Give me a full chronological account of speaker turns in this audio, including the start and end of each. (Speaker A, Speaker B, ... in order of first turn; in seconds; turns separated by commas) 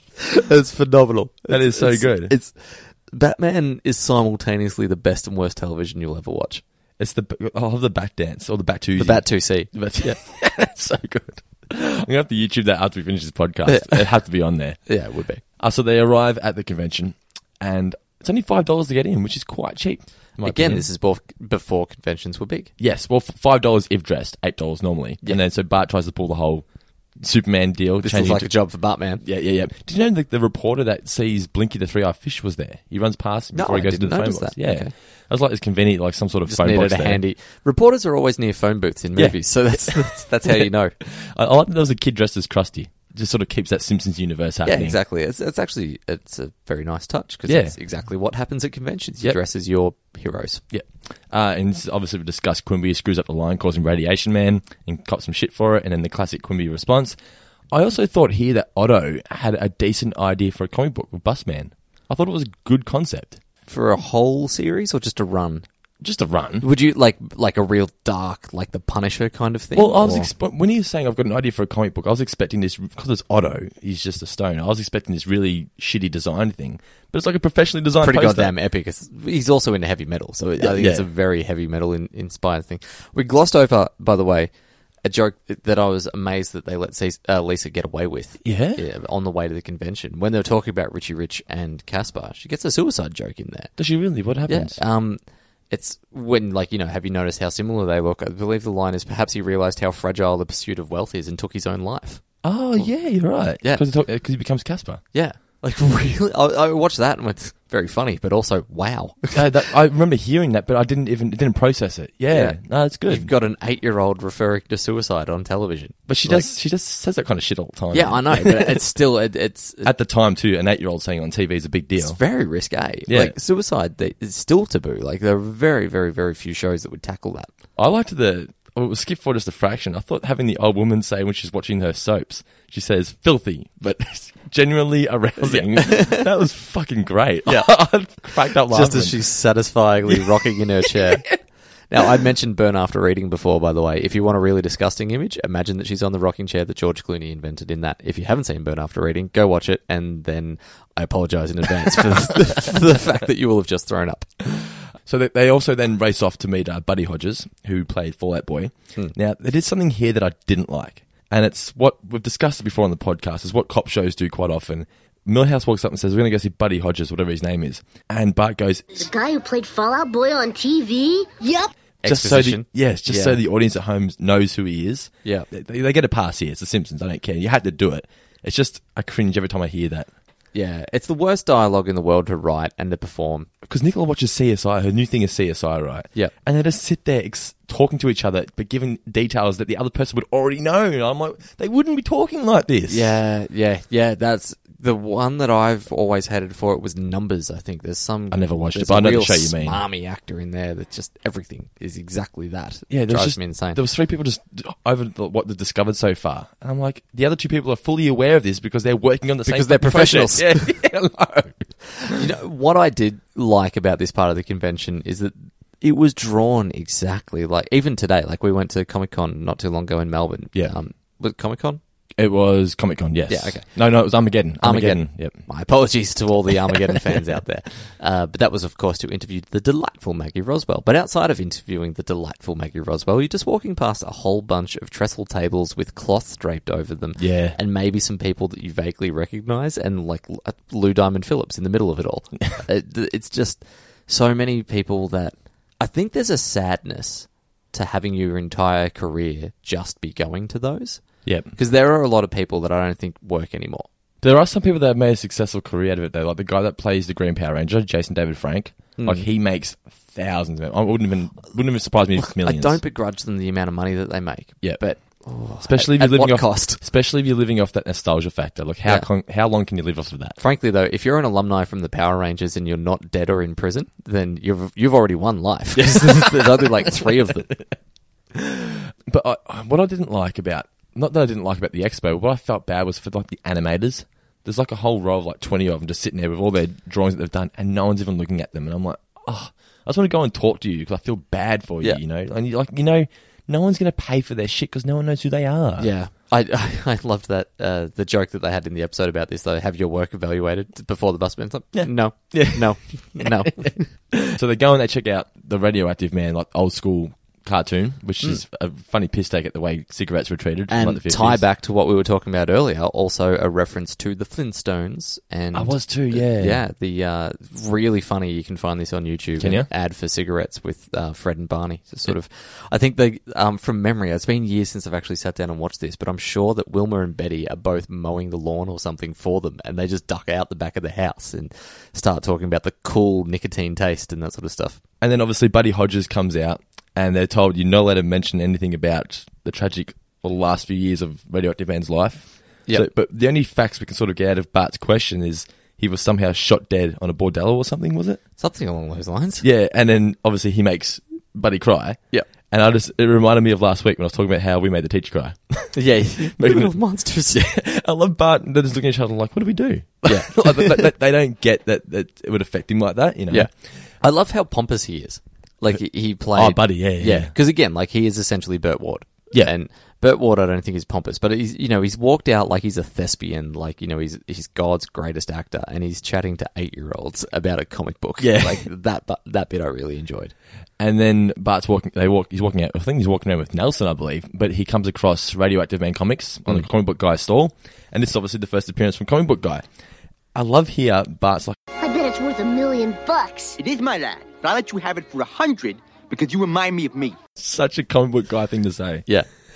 Speaker A: 0.2-6.6, Speaker B: 1.5-2.3, Speaker B: 7.0-14.8, Speaker A: 9.0-10.2, Speaker A: 13.7-14.1, Speaker A: 14.8-15.4, Speaker B: 15.6-20.9, Speaker A: 20.4-22.7, Speaker B: 22.8-26.6, Speaker B: 27.2-28.5, Speaker A: 28.0-29.2, Speaker B: 29.2-37.2, Speaker A: 33.5-34.9, Speaker A: 36.5-40.9, Speaker B: 39.1-45.0, Speaker A: 44.6-50.6, Speaker B: 47.5-47.8, Speaker B: 50.7-57.2, Speaker B: 57.7-63.4, Speaker A: 63.7-65.6, Speaker B: 66.0-66.7, Speaker A: 66.6-70.3, Speaker B: 69.7-78.5, Speaker A: 78.0-84.5, Speaker B: 80.6-81.0, Speaker A: 85.0-93.8, Speaker B: 88.4-88.8, Speaker B: 93.8-94.8, Speaker A: 94.5-102.2, Speaker B: 102.4-105.0, Speaker A: 105.1-109.4, Speaker B: 109.3-113.3, Speaker A: 112.3-116.5, Speaker B: 116.1-118.8, Speaker A: 117.9-119.9, Speaker B: 119.8-122.2, Speaker A: 122.0-127.5, Speaker B: 123.1-123.3, Speaker B: 127.8-139.2, Speaker A: 135.4-136.2, Speaker A: 137.4-137.7, Speaker A: 138.7-141.4, Speaker A: 141.9-154.3, Speaker B: 154.5-168.9, Speaker C: 168.9-171.7, Speaker A: 172.0-173.4, Speaker B: 172.0-180.1, Speaker A: 180.5-183.5, Speaker B: 183.7-193.1, Speaker A: 192.9-203.8, Speaker B: 198.3-199.8, Speaker B: 202.9-212.2, Speaker A: 209.4-210.7, Speaker A: 212.0-221.8, Speaker B: 222.2-225.4, Speaker A: 223.3-223.7, Speaker A: 224.6-253.9, Speaker B: 237.2-237.6, Speaker B: 251.2-251.5, Speaker B: 254.2-262.8, Speaker A: 259.0-259.3, Speaker A: 262.2-266.8, Speaker B: 265.6-270.4, Speaker A: 270.4-277.5, Speaker B: 275.8-277.6, Speaker B: 278.3-295.9, Speaker A: 295.8-303.9, Speaker B: 301.7-311.4, Speaker A: 310.7-334.8, Speaker B: 315.5-316.6, Speaker B: 319.4-319.7, Speaker B: 335.0-348.2, Speaker A: 348.4-349.4, Speaker B: 349.4-356.7, Speaker A: 355.7-357.4, Speaker B: 357.3-363.5, Speaker A: 360.1-360.9, Speaker A: 363.3-380.3, Speaker B: 366.3-367.3, Speaker B: 378.2-378.6, Speaker B: 380.8-389.6, Speaker B: 390.3-391.6, Speaker C: 391.8-393.6, Speaker D: 393.6-397.1, Speaker B: 397.4-399.1